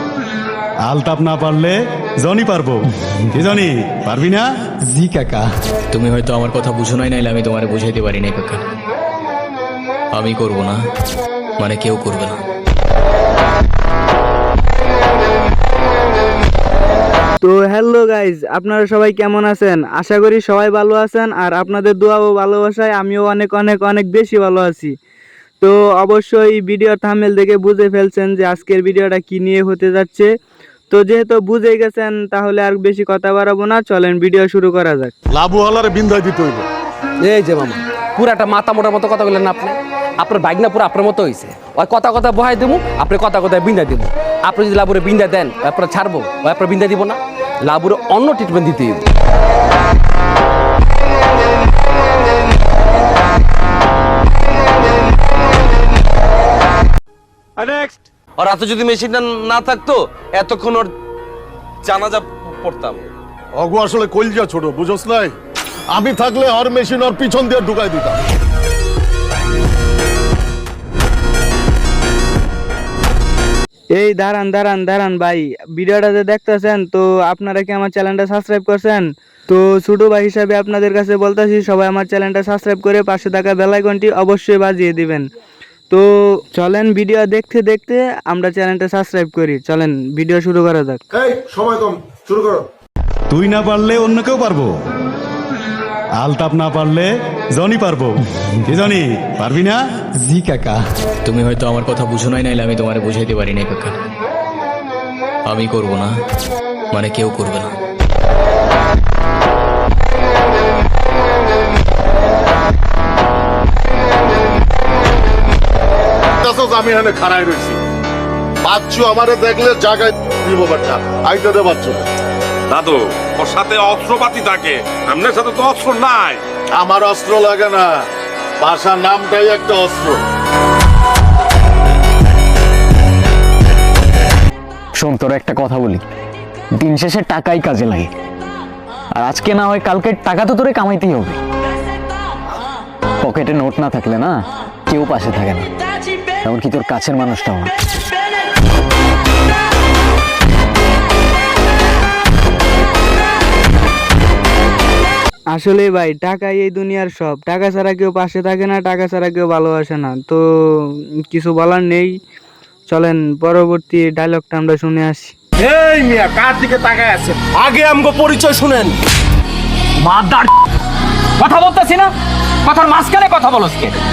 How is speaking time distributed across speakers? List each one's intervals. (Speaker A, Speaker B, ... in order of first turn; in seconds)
Speaker A: 0.8-2.8, 3.3-5.4, 93.3-94.7, 96.2-100.7
Speaker B: 5.9-8.6, 10.1-10.8, 11.6-12.4, 101.2-103.9, 105.5-106.1, 106.9-107.7
Speaker C: 17.4-24.9, 25.6-30.3, 30.9-35.1, 73.9-85.2, 85.9-91.0, 155.5-162.1, 162.9-165.3
Speaker D: 35.3-36.6, 63.5-65.3, 65.9-68.2, 116.4-117.8, 118.6-122.0, 126.8-128.0, 128.6-130.2
Speaker E: 37.2-49.1
Speaker F: 58.4-60.9, 61.8-63.1, 165.6-166.4, 167.5-169.0
Speaker G: 122.7-126.4
Speaker H: 135.0-136.0, 136.8-138.1, 139.2-141.3, 143.3-144.3, 144.9-145.6, 146.5-147.7
Speaker I: 170.0-170.5, 171.4-174.0